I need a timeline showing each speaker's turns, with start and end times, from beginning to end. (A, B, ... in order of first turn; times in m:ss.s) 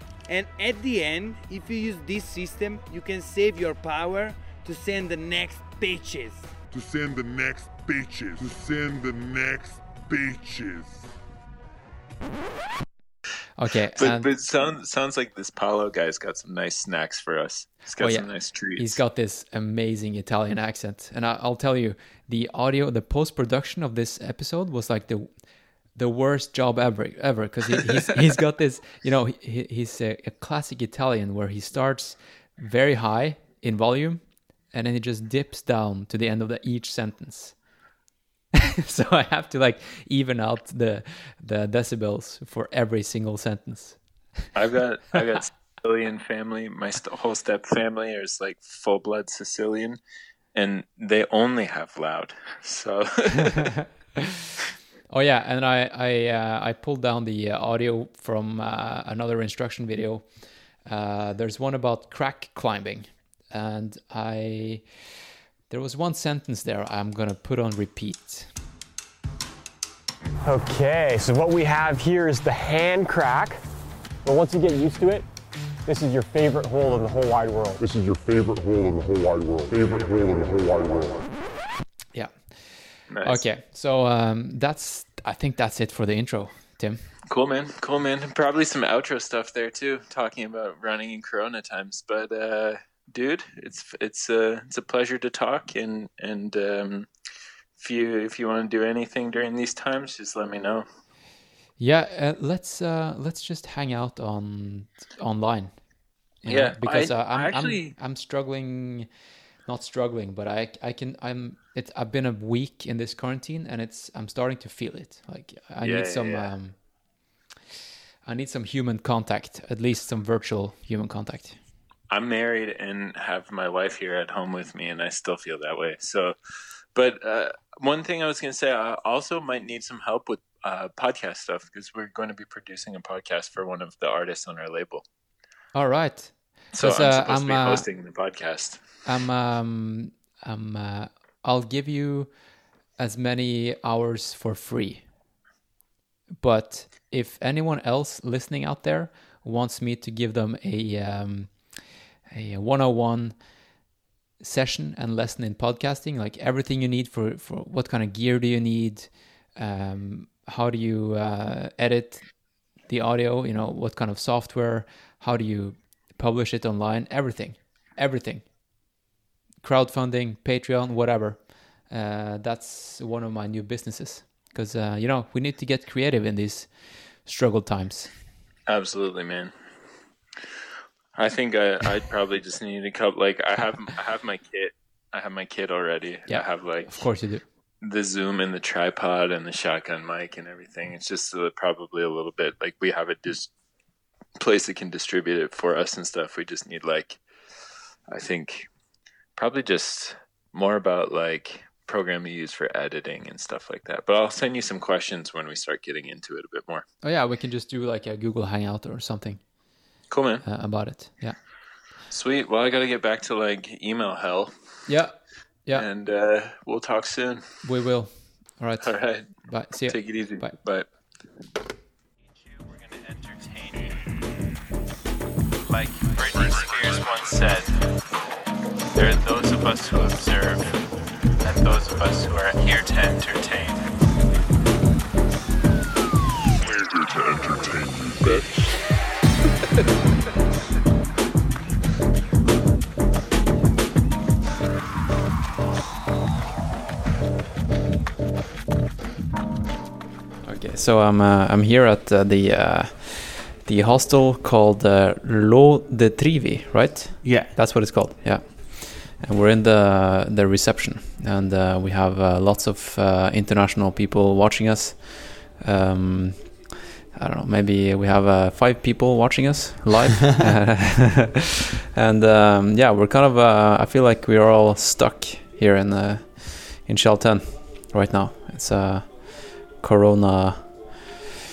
0:00.3-0:06.5 A
0:06.7-0:11.0 B
0:13.6-0:14.3 C
0:14.0-0:19.0 D
0:18.0-0:37.6 C
0:38.8-0:44.3 C
0:44.5-0:50.0 D
0:50.5-0:53.8 D
0:55.1-1:08.5 C
1:10.4-1:13.6 E
1:14.2-1:15.3 E
1:15.9-1:17.8 E
1:17.8-1:21.2 B
1:22.1-1:27.1 C
1:23.1-1:23.4 D
1:27.3-1:37.1 D
1:37.8-1:40.9 D
1:41.8-1:49.1 C
1:46.5-1:48.0 D
1:49.6-1:57.0 C
1:55.8-1:56.5 D
1:58.2-2:01.6 C
2:02.1-2:06.4 D
2:06.9-2:15.0 D
2:15.7-2:17.9 C
2:16.7-2:18.8 D
2:19.1-2:22.4 C
2:23.0-2:25.1 C
2:26.4-2:33.8 C
2:34.4-2:48.9 C
2:49.6-2:58.2 C
2:58.7-2:59.5 D
3:01.2-3:07.3 D
3:06.3-3:07.4 C
3:07.8-3:13.5 D
3:14.4-3:18.7 D
3:19.4-3:26.8 D
3:27.0-3:29.7 C
3:30.1-3:30.5 D
3:30.4-3:31.4 C
3:32.1-3:34.5 D
3:34.9-3:35.9 C
3:35.7-3:37.4 D
3:37.6-3:40.6 C
3:38.8-3:40.9 D
3:43.0-3:44.0 D
3:45.7-3:47.9 D
3:49.0-3:50.8 D
3:51.4-3:53.9 D
3:56.6-3:58.5 B
4:10.4-4:41.1 C
4:17.2-4:17.5 A